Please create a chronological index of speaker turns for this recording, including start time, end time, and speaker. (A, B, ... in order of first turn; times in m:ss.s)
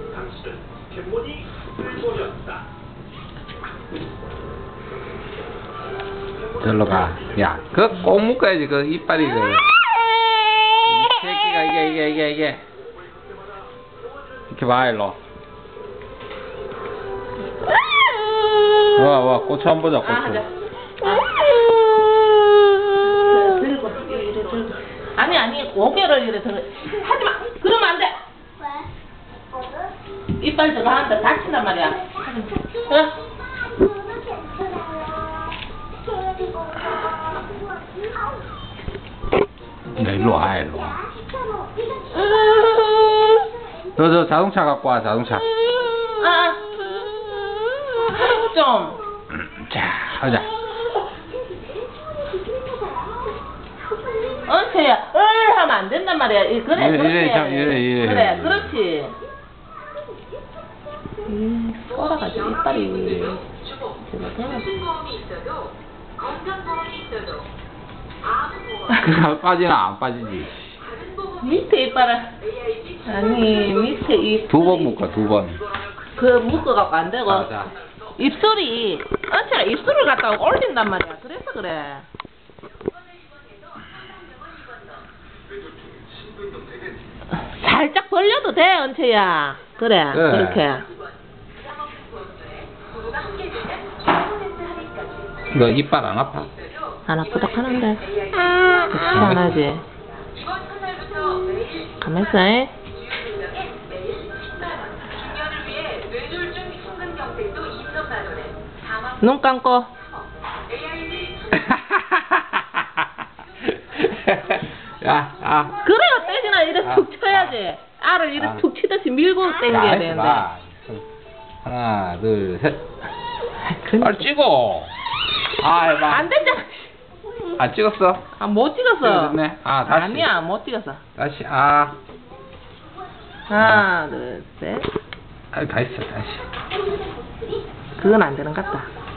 0:06.6-0:09.7 A
0:10.8-0:12.6 A
0:14.5-0:15.2 A
0:18.9-0:20.4 A
0:20.0-0:21.7 B
0:23.0-0:28.2 B
0:30.4-0:33.2 B
0:39.9-0:41.0 A
0:44.0-0:45.5 A
0:46.2-0:46.8 B
0:47.9-0:49.0 B
0:49.3-0:50.5 A
0:54.4-0:59.2 B
0:56.7-0:58.7 A
1:01.2-1:03.4 B
1:04.0-1:04.7 B
1:08.9-1:10.8 A
1:11.4-1:12.3 B
1:13.0-1:15.0 B
1:14.5-1:15.6 A
1:16.2-1:22.1 B
1:17.2-1:17.7 A
1:27.3-1:30.9 B
1:30.1-1:30.6 A
1:35.5-1:36.5 A
1:37.1-1:39.8 B
1:39.0-1:39.6 A
1:41.9-1:42.7 B
1:49.2-1:49.9 B
1:51.5-1:53.1 A
1:53.6-1:55.8 A
1:55.8-2:00.5 B
1:56.8-1:57.6 A
1:58.4-1:58.6 A
1:59.7-2:01.0 A
2:01.6-2:02.8 A
2:03.7-2:04.2 B
2:04.0-2:04.9 A
2:05.6-2:06.3 A
2:06.1-2:06.9 B
2:07.5-2:08.2 A
2:08.4-2:11.0 B
2:09.0-2:10.3 A
2:11.2-2:12.0 A
2:13.5-2:14.9 B
2:13.6-2:13.9 A
2:15.5-2:16.4 A
2:18.0-2:18.9 B